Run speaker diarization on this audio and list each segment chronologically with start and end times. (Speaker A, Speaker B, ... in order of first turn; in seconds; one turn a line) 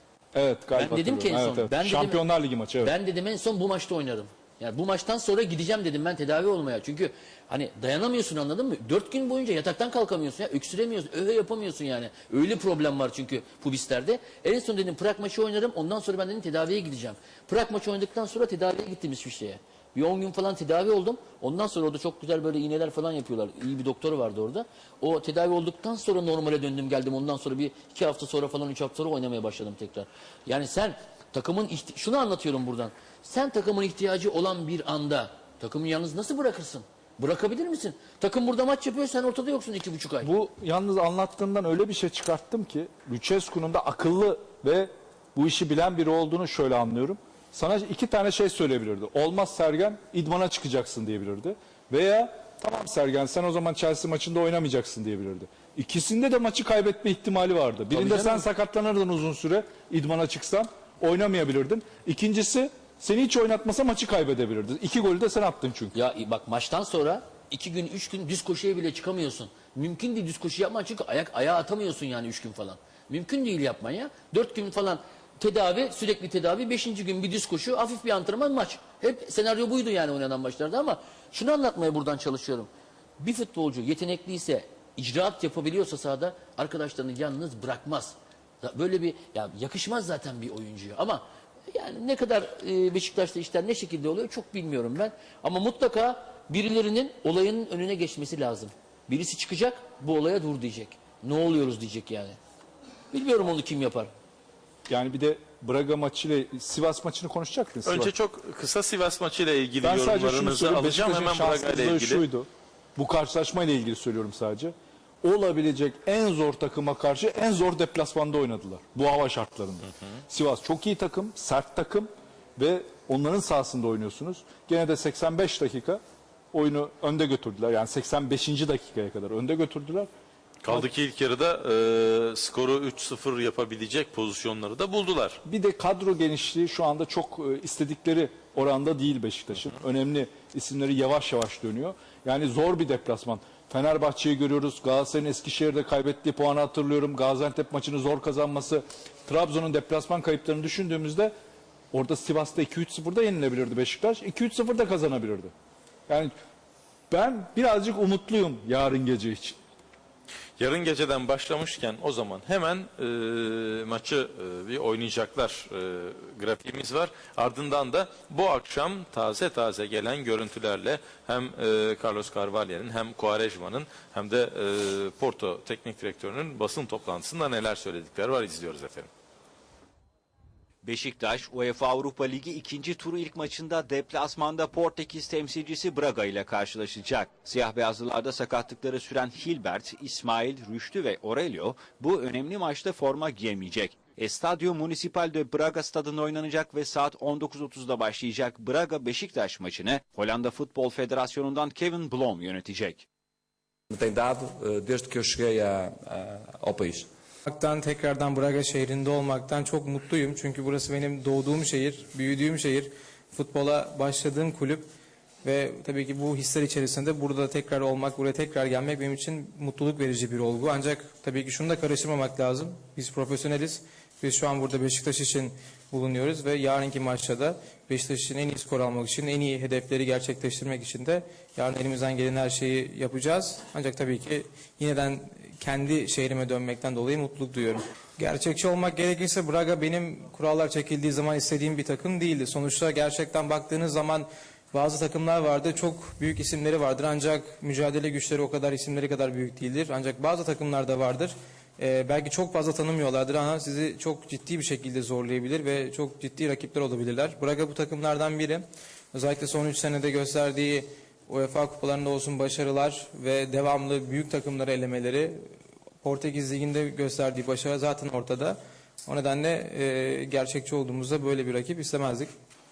Speaker A: 0.3-2.9
Speaker B: 0.8-2.2
Speaker B: 2.8-40.3
Speaker A: 40.2-66.0
Speaker B: 57.9-58.4
Speaker B: 65.9-82.7
Speaker B: 83.2-102.4
Speaker B: 103.1-104.1
Speaker A: 104.9-108.1
Speaker C: 107.8-112.2
Speaker A: 109.8-126.0
Speaker A: 126.5-130.1
Speaker C: 130.6-135.4
Speaker A: 135.4-151.3
Speaker A: 151.9-155.5
Speaker A: 156.1-156.3
Speaker A: 157.1-159.6
Speaker C: 160.6-179.1
Speaker D: 180.8-203.1
Speaker E: 203.9-207.1
Speaker F: 207.5-214.9
Speaker F: 215.4-265.5
Speaker F: 266.0-272.3